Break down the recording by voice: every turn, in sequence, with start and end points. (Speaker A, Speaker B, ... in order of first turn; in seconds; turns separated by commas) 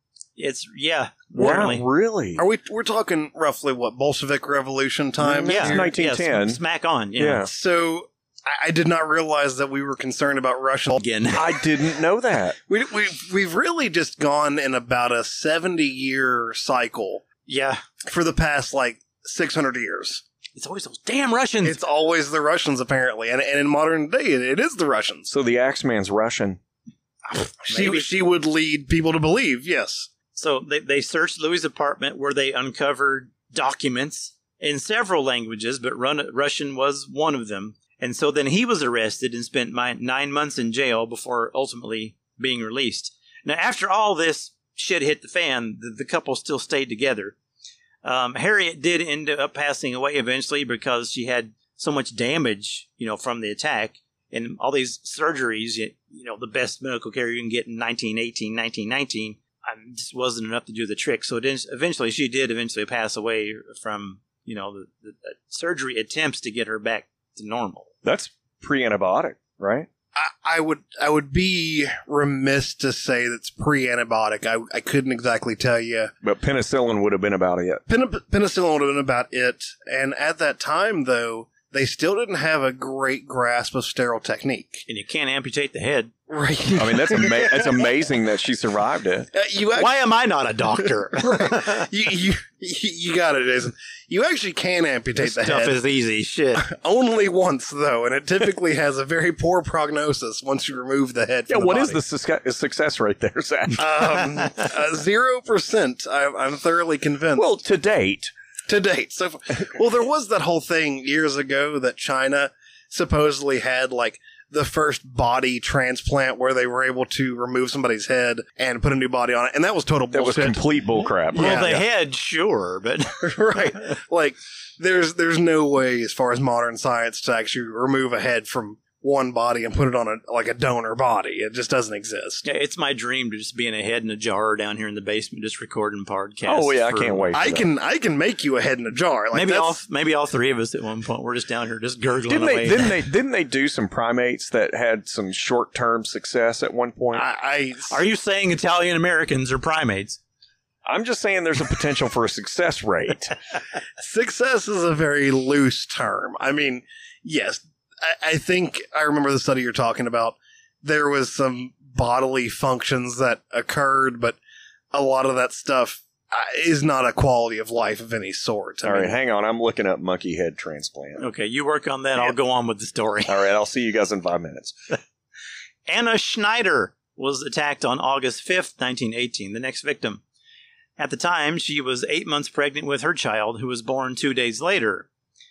Speaker A: 0.4-1.9, Speaker B: 1.4-2.4, Speaker C: 2.4-5.9, Speaker B: 5.2-6.6, Speaker A: 5.4-7.5, Speaker B: 7.2-7.5, Speaker C: 7.5-11.0, Speaker A: 11.0-11.4, Speaker B: 11.3-12.6, Speaker C: 12.7-17.2, Speaker A: 17.5-17.8, Speaker C: 18.1-20.2, Speaker A: 20.6-21.8, Speaker C: 21.6-25.3, Speaker B: 25.3-26.6, Speaker A: 27.3-28.1, Speaker C: 27.7-30.1, Speaker A: 30.3-47.4, Speaker A: 48.0-67.9, Speaker B: 68.0-69.9, Speaker C: 70.2-76.1, Speaker B: 76.2-77.8, Speaker C: 77.9-84.8, Speaker A: 84.9-86.1, Speaker C: 86.3-87.9, Speaker B: 86.8-89.3, Speaker C: 89.3-90.0, Speaker A: 89.8-91.9, Speaker C: 91.1-95.8, Speaker A: 95.2-96.7, Speaker C: 96.6-102.0, Speaker B: 101.5-104.0, Speaker C: 103.8-107.5, Speaker B: 107.4-108.3, Speaker C: 108.7-120.6, Speaker B: 120.1-121.8, Speaker C: 121.3-121.7, Speaker A: 121.3-123.7, Speaker C: 123.2-132.4, Speaker A: 132.4-137.3, Speaker B: 136.5-137.7, Speaker C: 137.3-139.8, Speaker A: 139.3-143.0, Speaker B: 142.3-147.3, Speaker C: 147.1-148.0, Speaker A: 147.9-150.2, Speaker B: 150.9-153.4, Speaker C: 154.0-164.4, Speaker C: 164.9-169.2, Speaker B: 168.8-171.3, Speaker A: 171.2-173.3, Speaker B: 173.3-174.8, Speaker A: 175.9-180.2, Speaker A: 181.0-185.1